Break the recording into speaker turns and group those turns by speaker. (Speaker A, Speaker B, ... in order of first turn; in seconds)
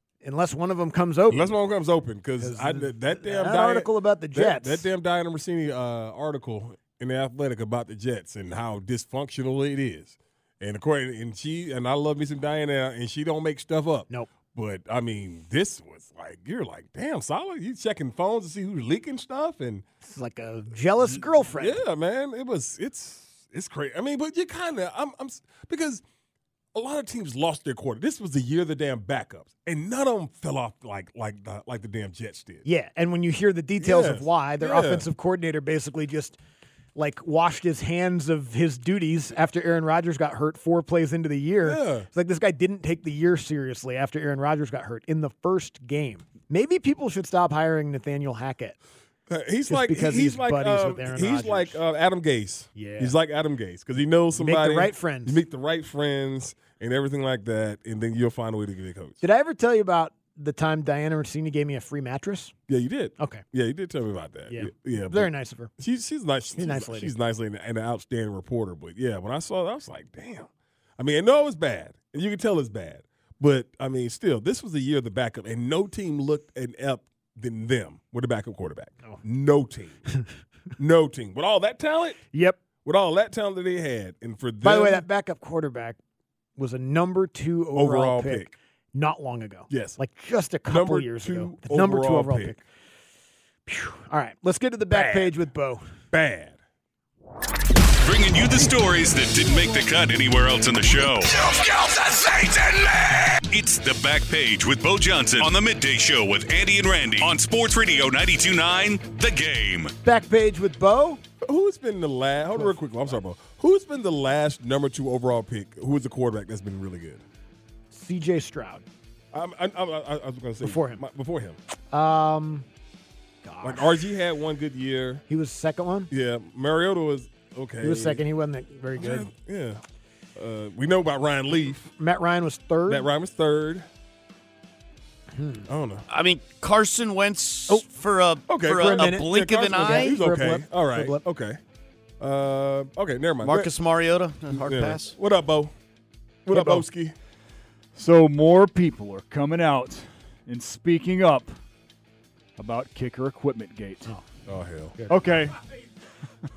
Speaker A: 0.2-1.5, 2.4-4.8, 20.0-21.8, 32.6-36.4, 37.0-48.8, 49.7-51.8, 52.8-53.1, 54.4-55.4, 59.2-62.5, 64.5-65.7, 66.6-67.1, 82.3-82.6, 84.6-86.0, 86.6-92.6, 93.7-95.8, 110.0-111.2, 117.9-118.8, 120.6-121.0, 121.9-122.7, 123.4-124.0, 125.3-126.1, 127.8-129.3, 132.0-133.1, 135.3-135.6, 138.7-141.2
Speaker B: 1.3-19.8, 21.6-26.0, 26.7-32.6, 33.8-35.0, 41.6-42.1, 49.3-59.2, 62.7-80.0, 80.8-82.2, 82.8-85.0, 87.7-88.5, 89.7-90.0, 90.7-92.6, 94.9-95.3, 96.1-96.6, 111.4-117.2, 119.3-121.6, 123.6-125.2, 126.1-128.2, 128.9-129.8, 130.3-131.9, 132.9-133.8, 135.7-136.0, 138.5-141.6, 142.2-143.7, 144.5-145.7, 146.4-147.1, 154.5-154.9
Speaker C: 98.0-109.9
Speaker D: 136.1-140.2, 143.4-145.1
Speaker E: 146.5-146.8, 147.9-151.5, 152.6-154.1, 155.1-155.6